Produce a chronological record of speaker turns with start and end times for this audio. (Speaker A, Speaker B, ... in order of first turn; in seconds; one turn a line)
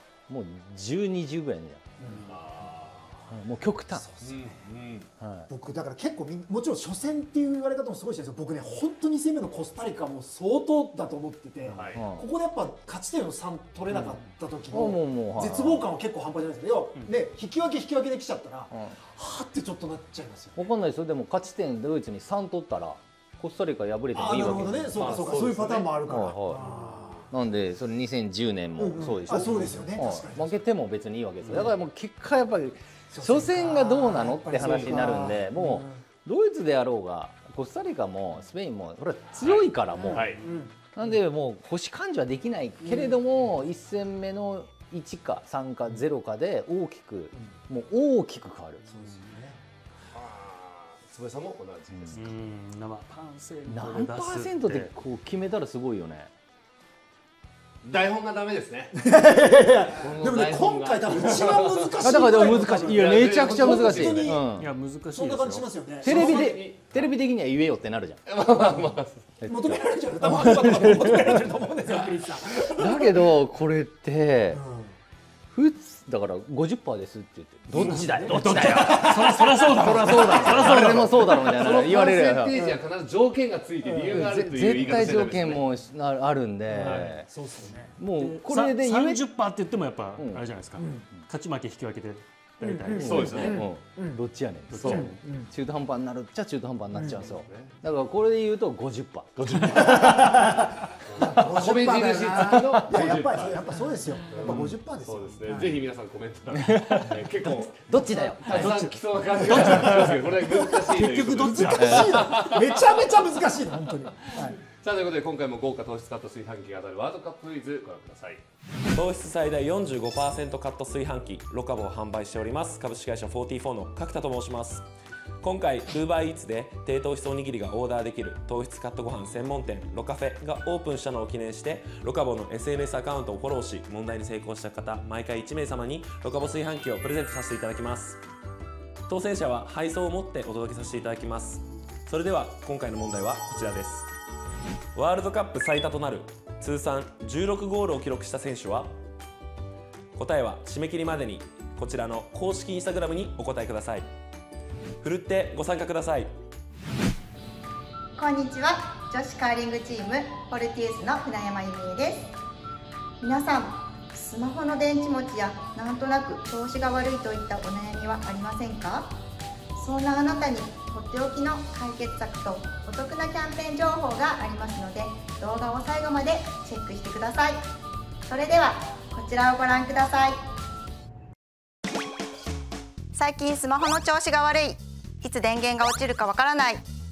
Speaker A: 0.3-2.2
Speaker B: 2.0-2.3
Speaker C: 2.3-3.3
Speaker A: 3.3-4.1
Speaker C: 4.2-5.1
Speaker A: 5.2-5.5
Speaker B: 5.5-20.6
Speaker C: 11.6-12.0
Speaker A: 11.9-12.2
Speaker A: 13.9-15.8
Speaker A: 20.6-25.0
Speaker B: 24.1-27.2
Speaker C: 24.9-26.0
Speaker A: 26.1-26.7
Speaker C: 26.6-27.2
Speaker A: 27.3-40.4
Speaker B: 28.8-30.6
Speaker B: 33.1-35.9
Speaker C: 39.4-40.5
Speaker B: 40.0-41.0
Speaker A: 40.9-48.9
Speaker B: 42.8-43.1
Speaker B: 48.9-49.6
Speaker C: 50.1-52.3
Speaker A: 51.9-52.2
Speaker D: 52.1-54.9
Speaker A: 53.7-56.3
Speaker C: 57.8-58.9
Speaker B: 58.9-66.6
Speaker C: 59.9-64.3
Speaker A: 62.0-64.7
Speaker D: 64.5-65.7
Speaker A: 66.0-68.2
Speaker C: 66.0-67.1
Speaker C: 68.2-69.2
Speaker A: 69.4-71.4
Speaker B: 69.5-73.3
Speaker A: 72.7-74.6
Speaker B: 74.5-74.9
Speaker A: 75.5-82.7
Speaker C: 77.7-78.1
Speaker B: 77.7-79.3
Speaker D: 78.3-81.7
Speaker C: 80.3-85.7
Speaker B: 83.8-84.2
Speaker A: 84.1-87.3
Speaker B: 86.7-88.0
Speaker C: 86.7-87.1
Speaker A: 88.0-89.2
Speaker D: 88.1-93.5
Speaker A: 90.2-90.4
Speaker B: 90.8-91.0
Speaker B: 92.6-94.2
Speaker A: 93.0-100.2
Speaker C: 93.0-93.6
Speaker D: 94.7-95.2
Speaker C: 94.8-95.1
Speaker B: 94.8-95.5
Speaker B: 96.9-97.3
Speaker C: 97.1-97.7
Speaker C: 99.4-100.2
Speaker B: 99.6-105.8
Speaker C: 101.0-107.9
Speaker A: 102.3-103.3
Speaker A: 106.6-108.8
Speaker C: 108.4-113.0
Speaker D: 108.5-110.3
Speaker B: 110.2-114.6
Speaker A: 111.7-112.3
Speaker C: 114.8-118.4
Speaker E: 118.9-124.8
Speaker E: 125.4-138.2
Speaker E: 139.1-144.1
Speaker E: 144.9-148.9
Speaker E: 150.1-154.1
Speaker E: 155.0-156.3
Speaker F: 158.2-162.3
Speaker F: 163.2-169.1
Speaker F: 169.8-177.6
Speaker F: 178.3-180.3
Speaker F: 183.1-186.8